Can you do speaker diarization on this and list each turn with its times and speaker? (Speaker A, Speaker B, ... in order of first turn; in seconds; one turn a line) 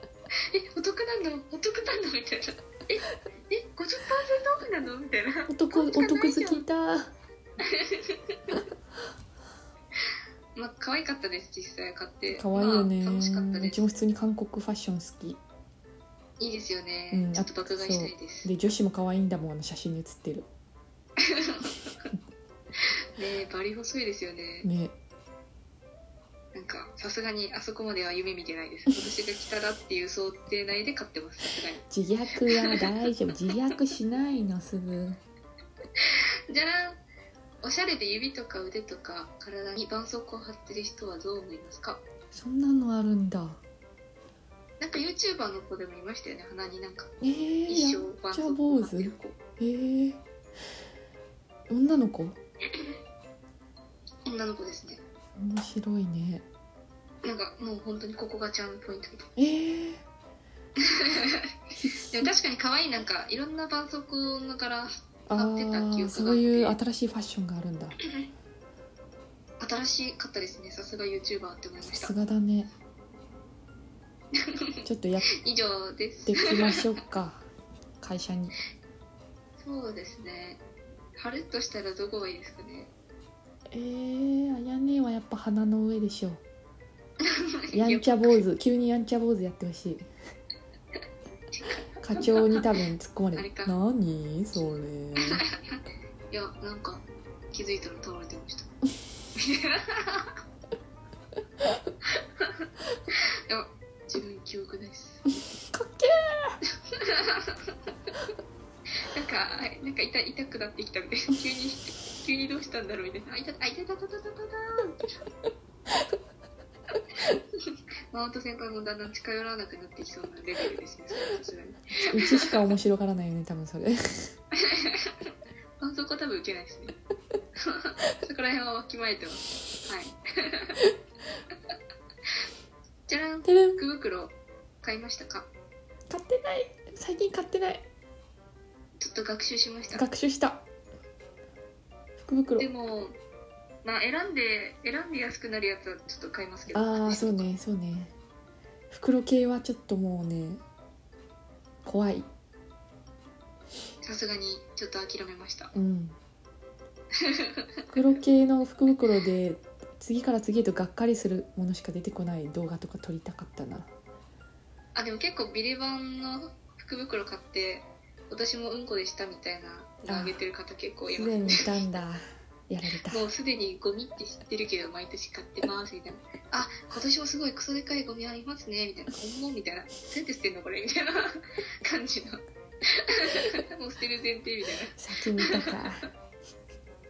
Speaker A: 0.5-6.6
Speaker B: 5.5-7.1
Speaker A: 7.6-8.4
Speaker A: 10.6-13.9
Speaker B: 12.3-15.4
Speaker A: 16.4-18.5
Speaker B: 17.1-20.5
Speaker A: 21.2-22.1
Speaker A: 23.2-24.7
Speaker B: 24.6-24.9
Speaker A: 26.5-31.8
Speaker B: 31.9-35.2
Speaker A: 36.0-37.0
Speaker A: 37.6-42.0
Speaker B: 42.3-43.6
Speaker A: 44.8-47.1
Speaker B: 47.2-50.2
Speaker A: 47.6-49.4
Speaker B: 51.7-52.4
Speaker A: 54.2-55.0
Speaker B: 55.4-56.4
Speaker A: 57.2-59.3
Speaker B: 59.4-60.0
Speaker A: 60.8-61.5
Speaker B: 61.8-62.3
Speaker A: 62.1-66.8
Speaker B: 65.3-68.0
Speaker A: 69.6-72.1
Speaker B: 71.8-72.7
Speaker A: 74.4-74.7
Speaker B: 74.8-75.3
Speaker A: 75.4-76.8
Speaker B: 76.2-77.4
Speaker B: 78.0-78.5
Speaker A: 79.6-80.6
Speaker A: 81.2-82.9
Speaker B: 83.7-86.4
Speaker A: 87.2-88.4
Speaker B: 87.7-90.1
Speaker A: 91.5-92.7
Speaker B: 92.0-95.4
Speaker A: 93.3-93.7
Speaker A: 95.5-95.8
Speaker A: 96.3-98.7
Speaker A: 99.4-100.3
Speaker A: 103.5-105.2
Speaker B: 105.7-106.6
Speaker A: 106.9-107.7
Speaker A: 109.0-115.0
Speaker A: 117.5-122.6
Speaker B: 122.0-124.3
Speaker A: 124.5-125.1
Speaker A: 125.8-127.0
Speaker A: 127.6-130.8
Speaker A: 133.1-135.5
Speaker B: 133.4-133.8
Speaker B: 136.1-137.8
Speaker A: 139.0-140.0
Speaker B: 139.9-140.6
Speaker B: 142.2-142.7
Speaker A: 142.6-143.2
Speaker A: 143.8-147.5
Speaker B: 146.7-148.1
Speaker B: 148.9-150.6
Speaker B: 151.8-152.3
Speaker A: 154.0-155.7
Speaker B: 155.7-156.2
Speaker A: 157.2-157.6
Speaker B: 157.9-163.9
Speaker A: 164.9-171.7
Speaker B: 170.1-170.4
Speaker B: 171.1-173.2
Speaker A: 173.1-185.8
Speaker B: 185.0-186.1